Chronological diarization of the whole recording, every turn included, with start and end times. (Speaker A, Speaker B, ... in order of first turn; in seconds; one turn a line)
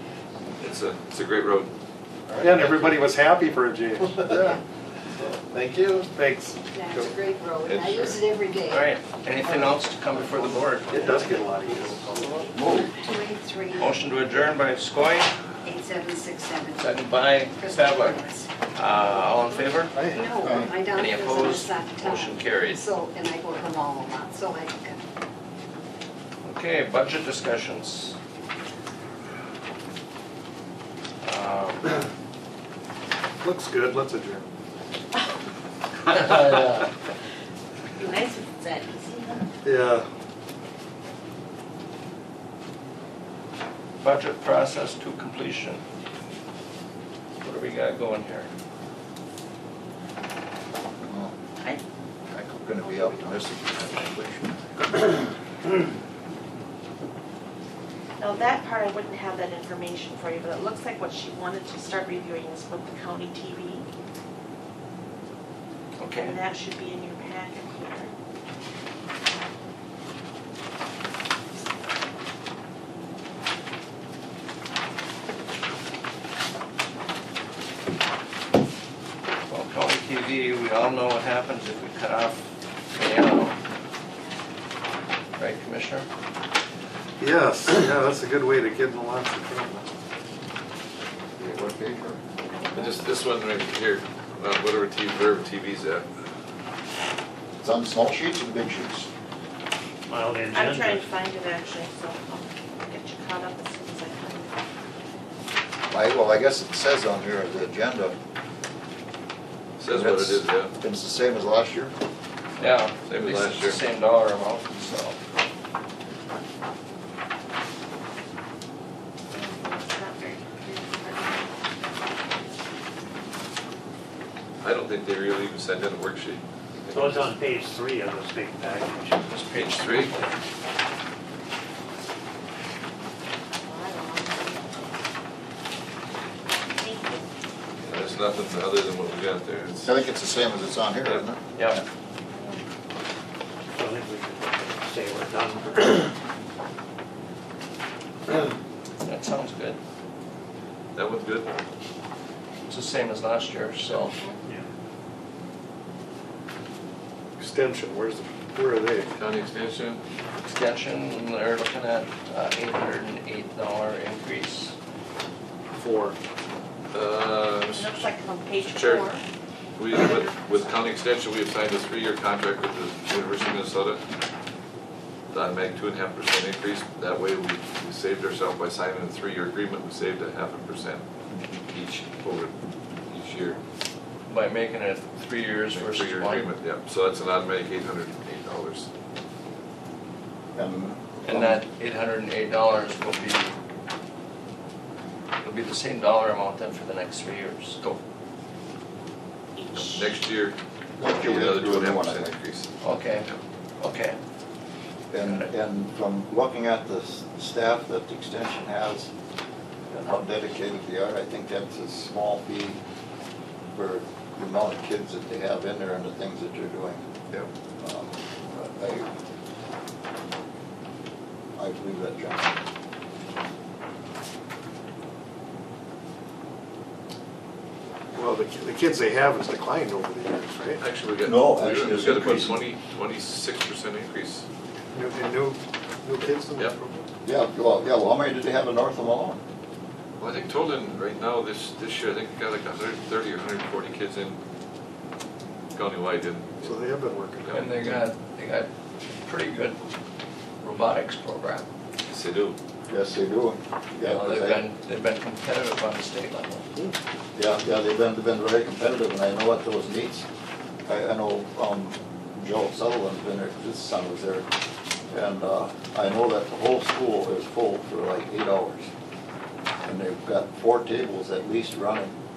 Speaker A: 0.6-1.7
Speaker B: 2.4-4.6
Speaker C: 4.3-4.6
Speaker D: 5.2-6.0
Speaker B: 6.0-7.1
Speaker C: 6.7-8.9
Speaker A: 7.6-8.2
Speaker E: 8.7-11.4
Speaker B: 10.9-12.5
Speaker D: 12.5-12.9
Speaker C: 12.6-14.0
Speaker E: 13.8-15.3
Speaker C: 15.6-18.5
Speaker E: 16.8-20.0
Speaker B: 19.9-20.2
Speaker C: 20.1-25.0
Speaker D: 20.4-20.7
Speaker E: 20.9-22.8
Speaker E: 26.4-28.1
Speaker E: 31.2-32.0
Speaker B: 33.4-34.5
Speaker E: 36.1-36.9
Speaker F: 38.0-39.5
Speaker B: 39.6-40.1
Speaker E: 44.0-45.8
Speaker E: 47.4-48.5
Speaker D: 51.0-51.3
Speaker D: 52.3-55.2
Speaker F: 58.2-63.9
Speaker E: 66.0-66.4
Speaker F: 66.1-68.1
Speaker E: 79.5-83.6
Speaker E: 85.4-86.1
Speaker B: 87.2-89.9
Speaker D: 91.4-92.2
Speaker F: 92.5-93.0
Speaker A: 92.7-96.0
Speaker D: 97.6-99.1
Speaker G: 100.1-101.1
Speaker F: 100.5-104.6
Speaker D: 105.9-108.2
Speaker A: 109.8-110.7
Speaker D: 109.9-111.9
Speaker E: 112.6-115.2
Speaker A: 113.0-113.8
Speaker F: 119.3-122.2
Speaker A: 124.6-127.3
Speaker G: 126.9-130.4
Speaker E: 129.2-130.2
Speaker A: 129.6-130.1
Speaker F: 133.5-134.9
Speaker F: 136.7-137.3
Speaker A: 137.8-139.9
Speaker D: 139.8-141.8
Speaker F: 142.3-142.6
Speaker G: 143.7-146.1
Speaker E: 149.0-149.8
Speaker A: 150.9-151.6
Speaker E: 152.6-154.2
Speaker F: 154.1-154.4
Speaker B: 157.4-159.1
Speaker A: 159.1-160.0
Speaker E: 160.4-164.7
Speaker B: 165.7-166.2
Speaker A: 166.9-169.1
Speaker F: 167.7-169.2
Speaker F: 169.8-170.7
Speaker A: 169.8-174.0
Speaker A: 175.3-181.0
Speaker D: 181.3-181.6
Speaker A: 181.7-182.5
Speaker A: 183.1-183.6
Speaker E: 184.3-186.5
Speaker A: 185.7-188.9
Speaker D: 190.5-191.6
Speaker E: 191.2-193.6
Speaker E: 195.4-197.8
Speaker F: 199.6-200.2
Speaker A: 199.7-203.4
Speaker D: 201.0-202.3
Speaker E: 202.8-204.2
Speaker D: 205.1-209.1
Speaker E: 205.2-205.5
Speaker D: 210.0-212.8
Speaker D: 213.7-217.1
Speaker D: 217.8-219.1
Speaker D: 221.6-222.6
Speaker B: 228.1-230.8
Speaker A: 230.8-234.4
Speaker D: 231.2-232.6
Speaker B: 234.9-237.1
Speaker D: 237.2-239.4
Speaker A: 240.2-244.4
Speaker A: 245.7-247.7
Speaker B: 246.6-247.6
Speaker E: 247.5-248.7
Speaker E: 249.2-249.8
Speaker E: 250.6-251.7
Speaker A: 252.1-252.6
Speaker D: 252.9-254.7
Speaker E: 254.0-256.7
Speaker D: 257.4-260.2
Speaker D: 260.9-264.5
Speaker D: 265.1-268.9
Speaker D: 269.8-272.1